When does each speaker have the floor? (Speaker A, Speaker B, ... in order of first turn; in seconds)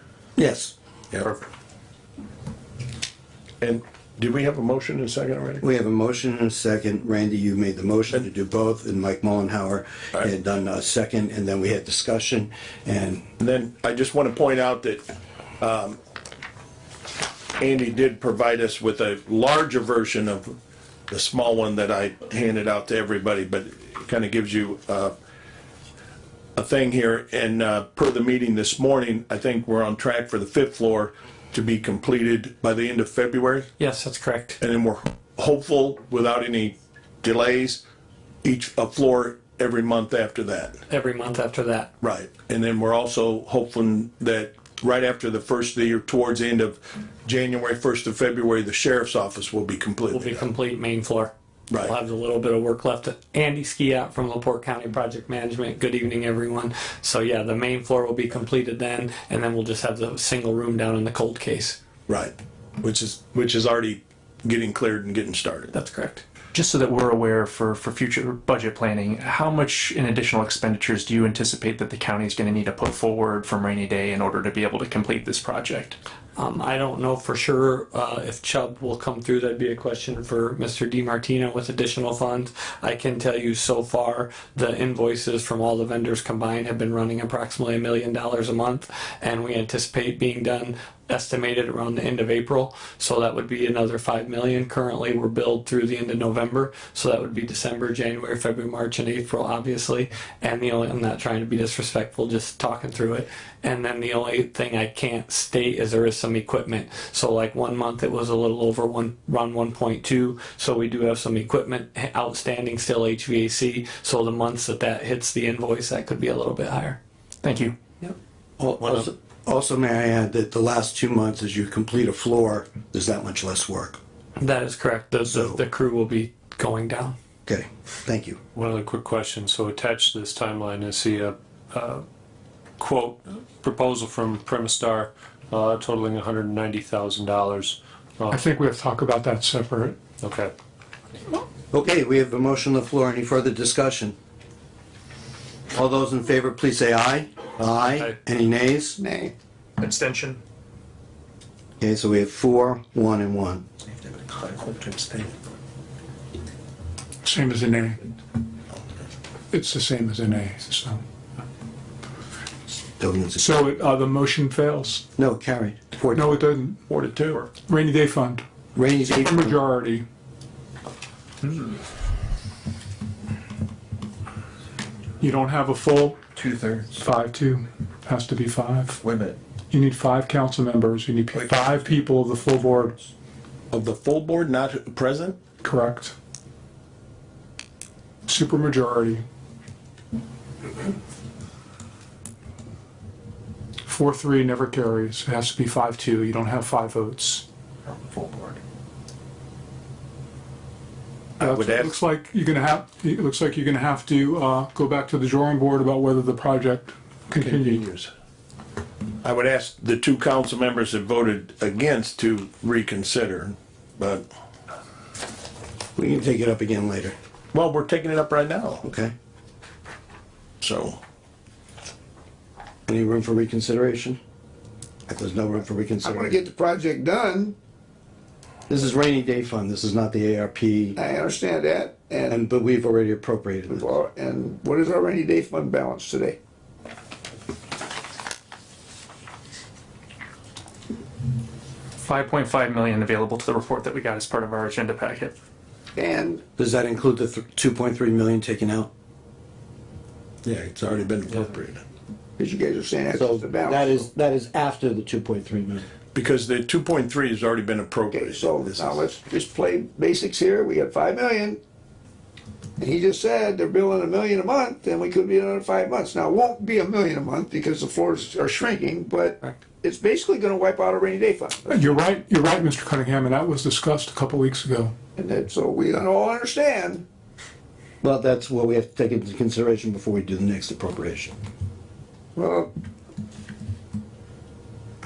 Speaker A: 0.4-0.7, 5.6-13.2, 118.6-124.0, 125.2-125.6, 127.5-128.4, 141.7-144.2, 145.7-149.0, 151.8-153.6, 163.0-163.5, 165.2-166.4, 168.7-169.6, 216.0-217.1, 218.8-219.1, 222.9-224.2, 225.1-226.4, 228.7-231.0, 232.3-233.9, 246.6-248.9, 253.1-255.8, 278.0-281.3
Speaker B: 3.6-5.6, 13.4-15.0, 15.6-16.0, 17.6-20.5, 21.1-25.1, 26.6-33.7, 34.6-37.8, 38.4-40.7, 42.0-50.5, 62.1-65.7, 166.9-167.5, 183.7-185.5, 201.4-201.9, 207.3-208.1, 209.2-214.2, 217.5-218.8, 220.6-221.0, 250.4-251.8, 256.1-259.0
Speaker C: 33.8-34.6, 40.9-41.9, 50.1-61.8, 65.7-66.2, 76.3-117.0, 124.4-127.1
Speaker D: 66.5-76.0, 117.4-117.7, 149.8-150.4, 242.0-245.3
Speaker E: 128.5-132.1, 132.8-138.4, 140.2-140.5
Speaker F: 138.3-140.0, 157.2-158.0, 159.5-161.0, 163.4-165.0, 166.1-166.8, 167.6-168.4, 169.2-170.0, 175.2-176.2, 176.9-179.0, 179.7-182.9, 185.5-186.1, 188.3-189.2, 193.8-197.4, 201.4-207.9, 271.7-274.9
Speaker G: 149.0-149.3, 226.0-227.6, 231.0-232.4, 233.7-236.4, 245.9-246.4, 252.4-254.1, 258.1-261.6, 262.8-271.9, 275.2-277.0, 282.4-282.7
Speaker H: 154.3-155.3, 176.4-176.9, 179.0-179.3, 181.3-181.6, 198.1-198.5